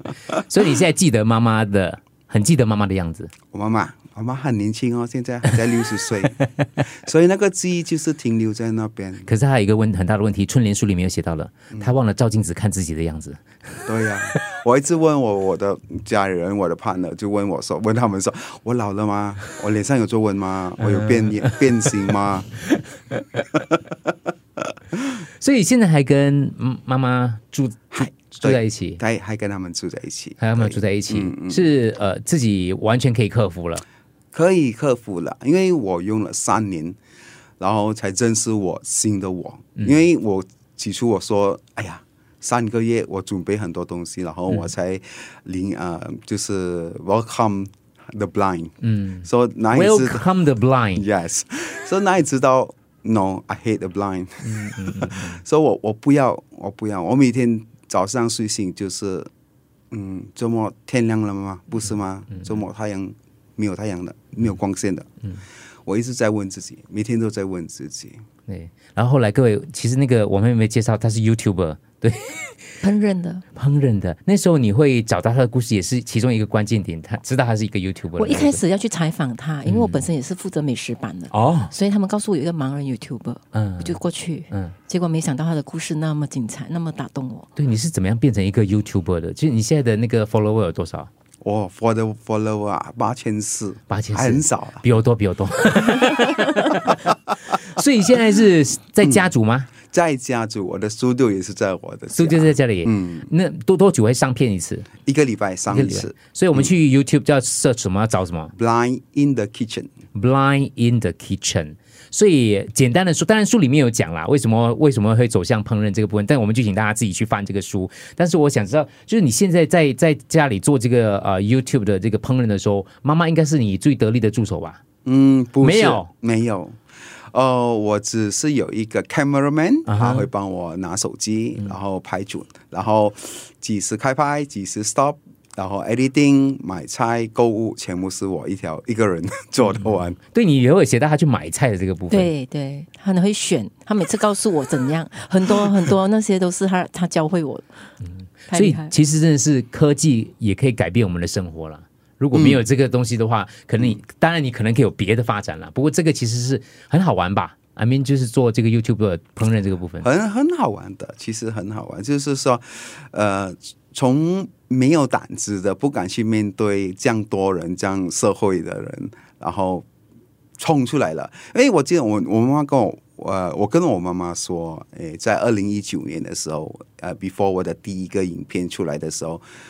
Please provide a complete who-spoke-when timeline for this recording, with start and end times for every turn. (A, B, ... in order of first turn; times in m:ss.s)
0:00.3-0:03.3 A
0:03.5-0:09.3 B
0:09.2-0:14.4 A
0:13.9-0:22.5 B
0:20.9-0:21.6 A
0:22.7-0:23.4 A
0:23.6-0:24.1 B
0:25.4-0:29.0 A
0:27.9-0:31.7 B
0:30.4-0:33.8 A
0:34.3-0:37.0 B
0:37.6-0:50.3 B
0:48.8-0:51.0 A
0:50.9-0:59.3 B
0:54.4-0:55.4 A
0:59.9-1:05.1 B
1:02.3-1:02.6 A
1:05.8-1:08.2 B
1:08.5-1:12.8 A
1:12.8-1:13.4 C
1:13.6-1:18.6 A
1:18.2-1:27.5 C
1:19.6-1:20.1 A
1:21.3-1:21.7 A
1:23.5-1:24.0 A
1:27.6-1:31.1 A
1:31.4-1:34.8 B
1:33.9-1:39.7 A
1:39.0-1:39.3 B
1:39.8-1:43.3 B
1:42.2-1:44.9 A
1:45.0-1:46.7 B
1:45.7-1:48.5 A
1:48.6-1:49.9 B
1:50.1-2:04.8 A
2:05.0-2:06.8 B
2:05.6-2:06.1 A
2:07.3-2:20.2 B
2:09.9-2:10.3 A
2:19.8-2:22.3 A
2:22.1-2:27.9 C
2:28.0-2:40.1 A
2:28.5-2:29.0 C
2:32.3-2:32.6 B
2:40.0-2:49.8 B
2:50.6-2:59.4 B